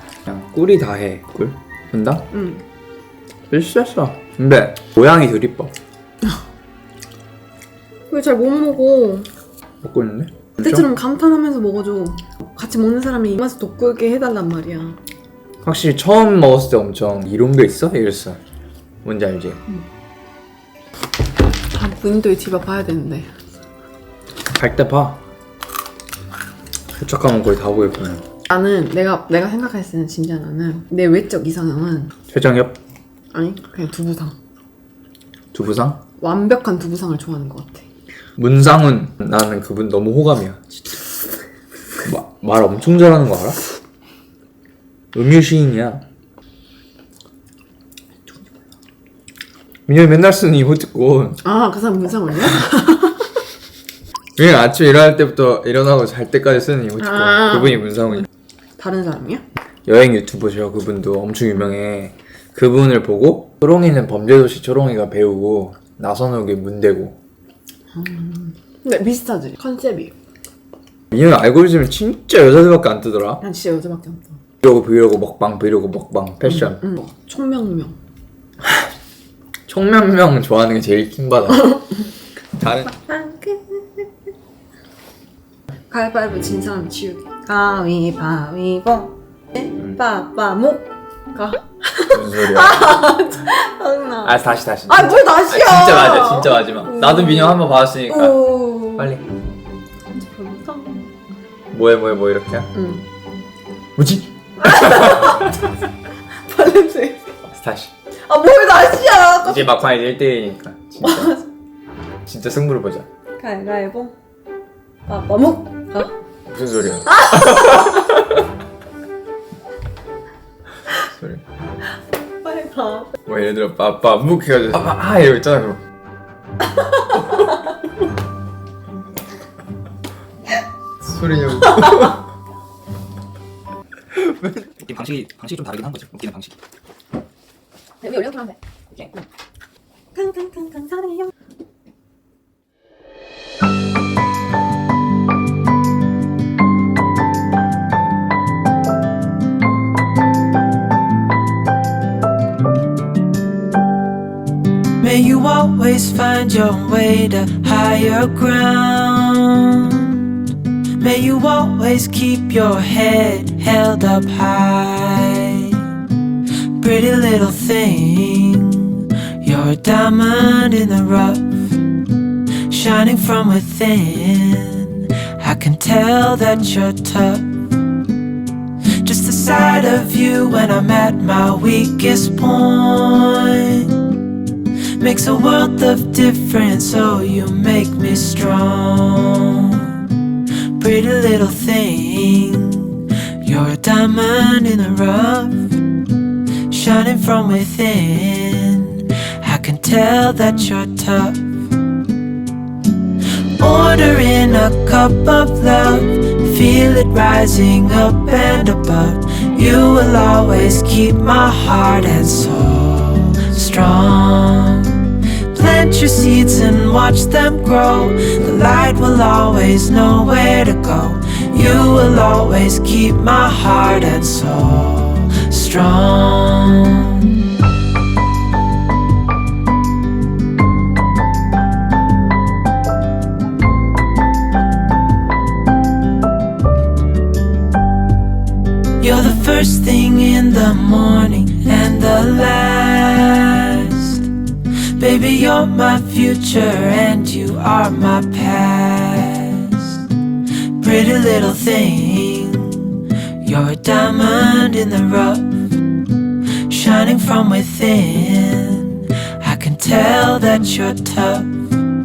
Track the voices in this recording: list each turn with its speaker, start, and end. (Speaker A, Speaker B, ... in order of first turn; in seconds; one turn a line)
Speaker A: 0.2-2.3
Speaker B: 2.3-2.6
Speaker A: 3.5-5.7
Speaker B: 8.1-9.3
Speaker A: 9.8-10.8
Speaker B: 10.6-15.0
Speaker A: 15.6-18.4
Speaker A: 19.0-19.6
Speaker B: 21.7-23.3
Speaker A: 24.6-25.2
Speaker A: 26.9-28.2
Speaker B: 28.5-32.1
Speaker A: 32.3-32.8
Speaker B: 33.3-34.3
Speaker A: 35.5-36.0
Speaker B: 36.2-37.9
Speaker A: 38.4-40.6
Speaker A: 42.0-43.6
Speaker A: 45.1-46.0
Speaker A: 49.9-51.4
Speaker B: 51.4-53.2
Speaker A: 54.4-58.3
Speaker B: 57.0-57.7
Speaker B: 58.8-59.4
Speaker A: 59.9-67.2
Speaker B: 67.9-70.1
Speaker A: 71.1-73.4
Speaker B: 73.4-74.4
Speaker A: 74.6-76.8
Speaker B: 76.4-78.0
Speaker A: 78.6-78.9
Speaker A: 79.7-81.8
Speaker A: 82.5-82.9
Speaker B: 82.9-84.1
Speaker B: 85.9-94.3
Speaker A: 92.1-93.2
Speaker A: 94.2-99.2
Speaker B: 94.9-99.1
Speaker B: 100.1-101.0
Speaker A: 101.7-102.7
Speaker B: 102.7-103.0
Speaker A: 104.0-105.4
Speaker B: 104.6-105.7
Speaker B: 106.4-107.3
Speaker A: 107.5-107.9
Speaker B: 108.2-109.7
Speaker A: 109.4-111.3
Speaker B: 111.0-111.4
Speaker A: 112.2-113.0
Speaker B: 113.4-114.1
Speaker B: 115.1-116.1
Speaker A: 116.5-118.4
Speaker B: 117.0-118.0
Speaker A: 121.0-121.4
Speaker B: 122.4-123.1
Speaker A: 123.2-125.8
Speaker A: 131.0-132.2
Speaker A: 134.1-136.5
Speaker B: 138.0-138.6
Speaker B: 140.1-141.3
Speaker C: 155.0-160.2
Speaker C: 161.0-165.8
Speaker C: 166.8-171.6
Speaker C: 172.7-177.5
Speaker C: 179.0-184.0
Speaker C: 185.0-190.0
Speaker C: 190.8-195.7
Speaker C: 196.7-201.4
Speaker C: 203.6-227.3
Speaker C: 239.0-244.3
Speaker C: 245.0-250.0
Speaker C: 250.8-255.5
Speaker C: 256.7-261.5